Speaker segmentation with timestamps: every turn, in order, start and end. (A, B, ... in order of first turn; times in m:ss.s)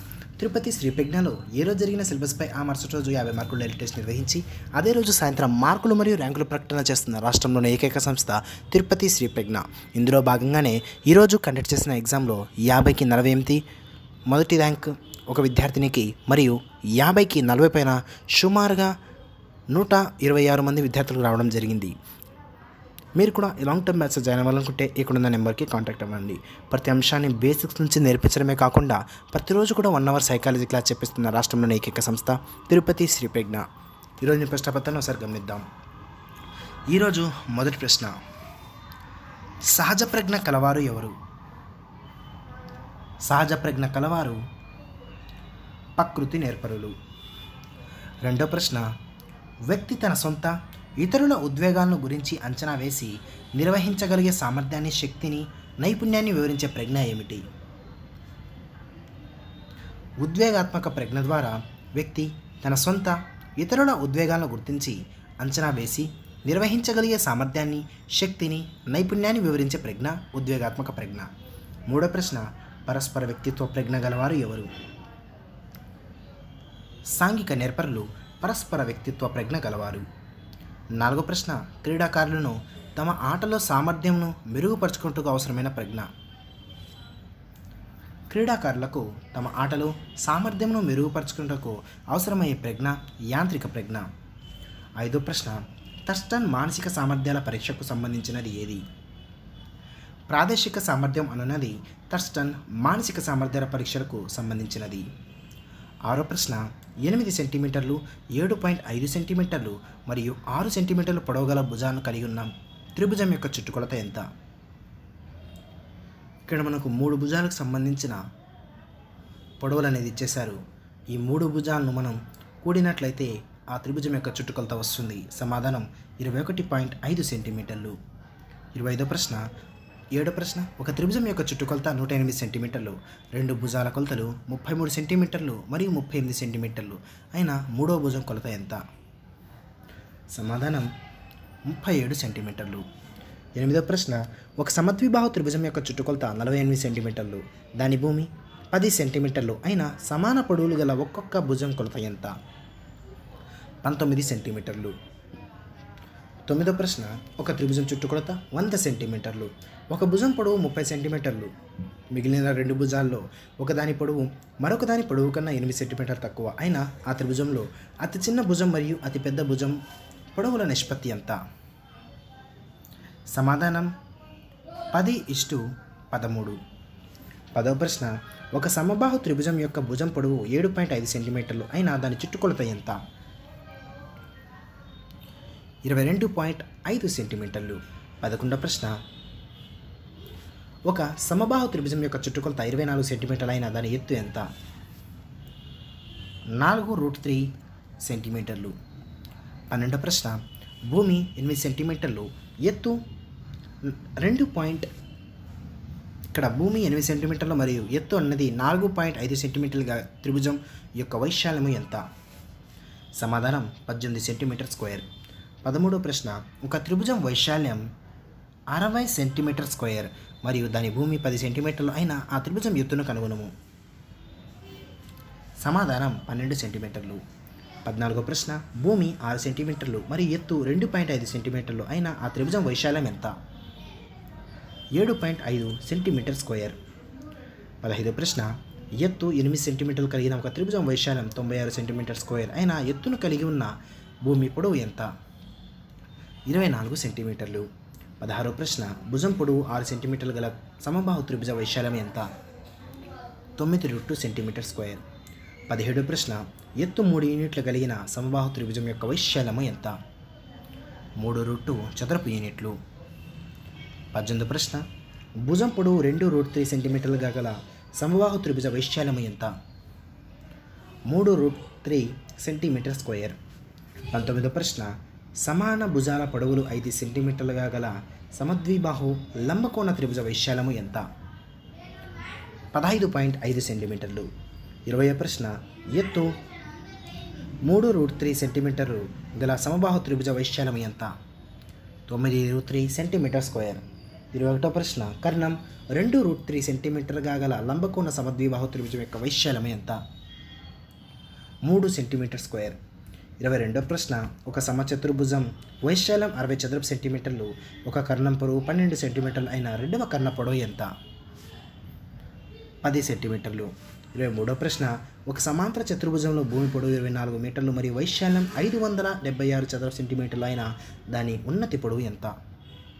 0:00.4-0:13.6 A
0:14.3-0:18.9 A
0:19.7-0:21.9 A
0:23.2-0:33.6 A
0:34.2-0:35.6 A
0:36.9-0:38.1 A
0:39.7-0:41.1 A
0:43.3-0:44.4 A
0:46.0-0:46.9 A
0:48.2-0:48.8 A
0:49.7-0:57.4 A
1:00.2-1:11.3 A
1:11.9-1:14.7 A
1:17.1-1:20.0 A
1:21.0-1:26.1 A
1:28.3-1:34.0 A
1:35.0-1:38.8 A
1:40.3-1:45.0 A
1:46.1-1:54.2 A
1:56.5-1:58.2 A
1:59.6-2:00.6 A
2:01.1-2:08.0 A
2:08.7-2:09.5 A
2:10.1-2:18.8 A
2:20.3-2:20.9 A
2:21.7-2:22.8 A
2:23.6-2:32.3 A
2:33.8-2:34.9 A
2:36.4-2:41.5 A
2:42.1-2:49.8 A
2:50.3-2:51.4 A
2:53.3-2:53.9 A
2:54.9-2:56.6 A
2:57.5-3:03.0 A
3:05.8-3:09.0 A
3:10.9-3:14.4 A
3:16.6-3:17.5 A
3:18.0-3:18.7 A
3:19.7-3:23.0 A
3:23.8-3:24.9 A
3:26.3-3:32.0 A
3:33.2-3:35.1 A
3:35.6-3:37.8 A
3:38.7-3:43.5 A
3:45.6-3:47.2 A
3:47.8-3:53.3 A
3:54.9-3:56.8 A
3:57.8-4:03.7 A
4:04.2-4:05.1 A
4:06.5-4:07.6 A
4:08.2-4:12.3 A
4:13.6-4:15.0 A
4:15.7-4:20.0 A
4:21.2-4:22.8 A
4:24.1-4:24.8 A
4:25.4-4:29.5 A
4:31.1-4:33.4 A
4:34.1-4:34.9 A
4:35.4-4:41.0 A
4:42.7-4:44.3 A
4:44.9-4:46.3 A
4:47.6-4:51.1 A
4:52.1-4:53.8 A
4:54.3-5:00.0 A
5:01.6-5:02.8 A
5:03.4-5:10.9 A
5:12.8-5:22.3 A